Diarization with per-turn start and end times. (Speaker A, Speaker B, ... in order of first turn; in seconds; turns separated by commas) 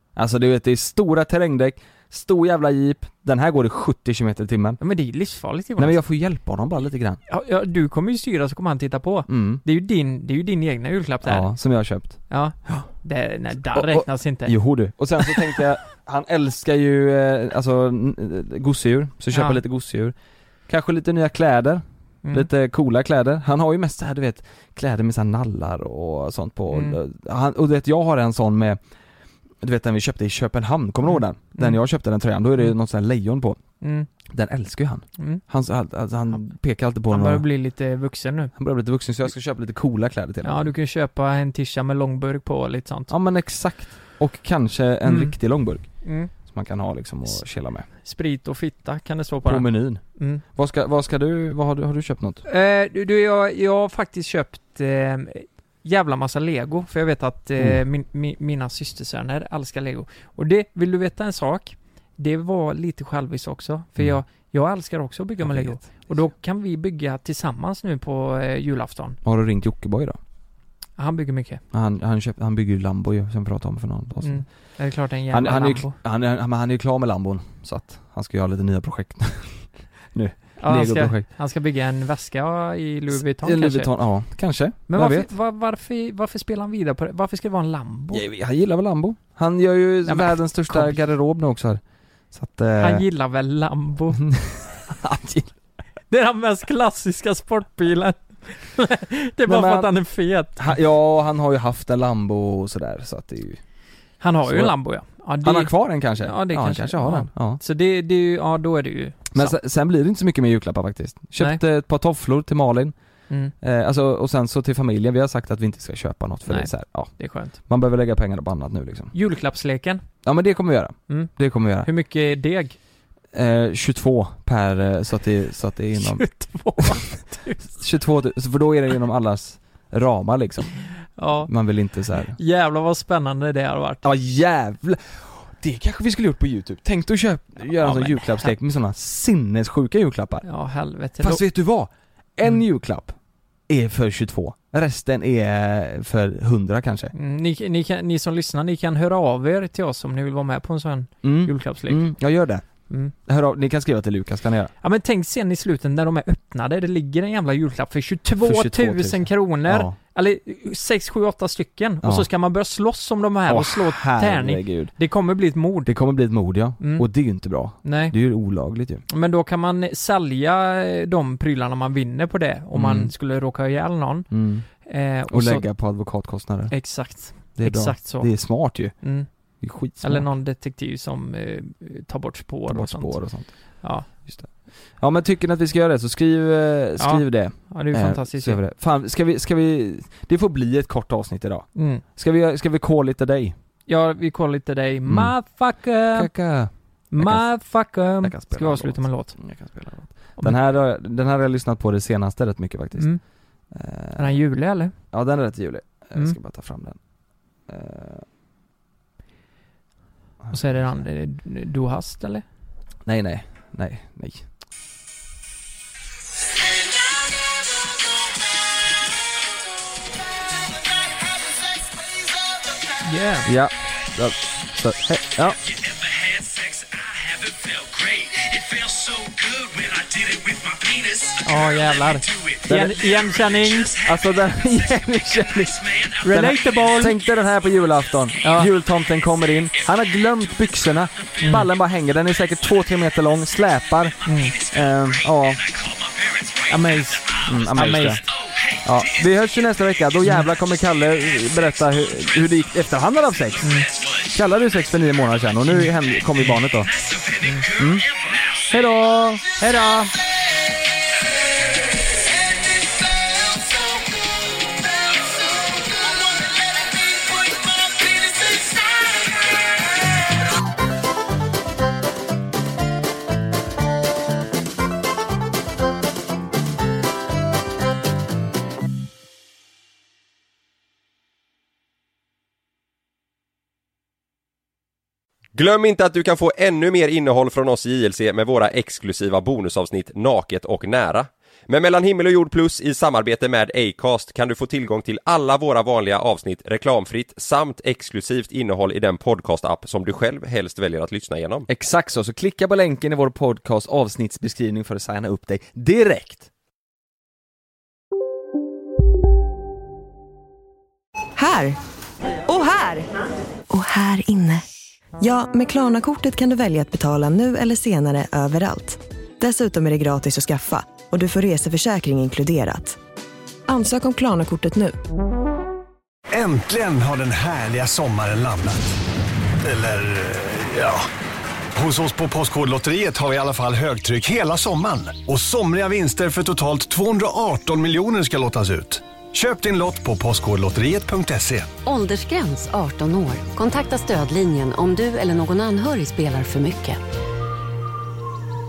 Speaker A: 0.1-4.8, Speaker B: 4.8-6.0, Speaker A: 5.8-7.2, Speaker B: 7.3-11.5, Speaker A: 9.3-9.6, Speaker A: 11.2-12.9, Speaker B: 12.3-14.5, Speaker A: 13.6-20.1, Speaker B: 19.3-19.6, Speaker A: 20.7-28.8, Speaker B: 26.7-27.0, Speaker A: 29.6-33.6, Speaker B: 31.1-31.8, Speaker B: 33.8-34.1, Speaker A: 34.2-37.4, Speaker B: 37.1-38.5, Speaker A: 38.5-40.7, Speaker B: 40.4-43.1, Speaker A: 43.1-47.9, Speaker B: 45.0-45.4, Speaker B: 46.0-46.3, Speaker B: 48.0-50.4, Speaker A: 49.4-52.4, Speaker B: 52.5-69.2, Speaker A: 57.6-57.8, Speaker A: 65.4-66.3, Speaker A: 69.2-70.2, Speaker B: 71.0-71.6, Speaker A: 71.7-74.5, Speaker B: 74.2-76.0, Speaker A: 75.3-81.2, Speaker B: 80.6-83.9, Speaker A: 83.1-85.3, Speaker B: 84.9-88.2, Speaker A: 88.1-91.8, Speaker B: 90.0-91.0, Speaker A: 92.3-93.0, Speaker B: 92.8-94.3, Speaker A: 94.1-95.5, Speaker B: 96.1-100.8, Speaker A: 99.5-99.9, Speaker A: 100.5-103.6, Speaker B: 104.2-109.6, Speaker A: 104.5-104.8, Speaker A: 105.4-107.6, Speaker A: 109.3-112.9, Speaker A: 113.6-119.1, Speaker B: 116.5-117.6, Speaker B: 119.1-120.0, Speaker A: 120.2-121.9, Speaker B: 121.1-122.8, Speaker A: 123.3-126.2, Speaker B: 126.0-127.7, Speaker A: 127.7-130.7, Speaker B: 131.2-131.5, Speaker A: 131.4-132.4, Speaker B: 132.3-134.0, Speaker A: 134.0-140.4, Speaker B: 137.8-138.5, Speaker B: 140.4-141.4, Speaker A: 141.2-143.1, Speaker A: 143.7-147.1, Speaker B: 147.1-152.1, Speaker A: 151.2-152.6, Speaker A: 153.2-154.7, Speaker B: 154.8-165.9, Speaker A: 158.4-159.9, Speaker A: 162.0-162.3, Speaker A: 163.5-164.9, Speaker A: 165.8-169.0, Speaker B: 166.8-167.1, Speaker B: 167.8-168.1, Speaker B: 169.1-174.3, Speaker A: 172.7-173.1, Speaker A: 174.3-174.7, Speaker B: 174.8-175.7, Speaker A: 175.3-176.7, Speaker B: 176.7-179.3, Speaker A: 177.5-178.9, Speaker A: 179.6-180.3, Speaker B: 180.0-183.2, Speaker A: 182.7-183.5, Speaker B: 183.8-184.1, Speaker A: 184.1-184.5, Speaker A: 185.0-193.5, Speaker B: 187.0-188.6, Speaker B: 191.7-192.0, Speaker B: 193.9-196.3, Speaker A: 195.1-195.3, Speaker A: 196.1-203.1, Speaker B: 197.1-199.3, Speaker A: 203.7-204.4, Speaker B: 204.2-204.9, Speaker A: 205.1-207.0, Speaker A: 207.7-208.3, Speaker A: 210.4-211.0, Speaker B: 210.5-212.4, Speaker A: 213.0-214.4, Speaker B: 223.0-223.5, Speaker A: 223.4-225.6, Speaker B: 231.4-233.9, Speaker A: 232.7-233.0, Speaker A: 233.9-245.7, Speaker B: 236.2-237.2, Speaker B: 238.4-238.7, Speaker B: 241.4-241.7, Speaker B: 244.2-244.6, Speaker B: 246.7-248.2, Speaker A: 247.4-248.2, Speaker A: 248.8-256.9, Speaker B: 253.6-253.9, Speaker B: 257.4-257.7, Speaker A: 257.7-259.5, Speaker B: 259.4-260.1, Speaker C: 285.5-301.7, Speaker A: 301.7-306.5, Speaker D: 311.4-311.8, Speaker D: 312.5-313.1, Speaker D: 313.7-314.6, Speaker D: 315.2-323.0, Speaker D: 323.7-324.9, Speaker E: 326.3-328.9, Speaker E: 329.6-331.1, Speaker E: 331.7-341.7, Speaker F: 341.8-347.0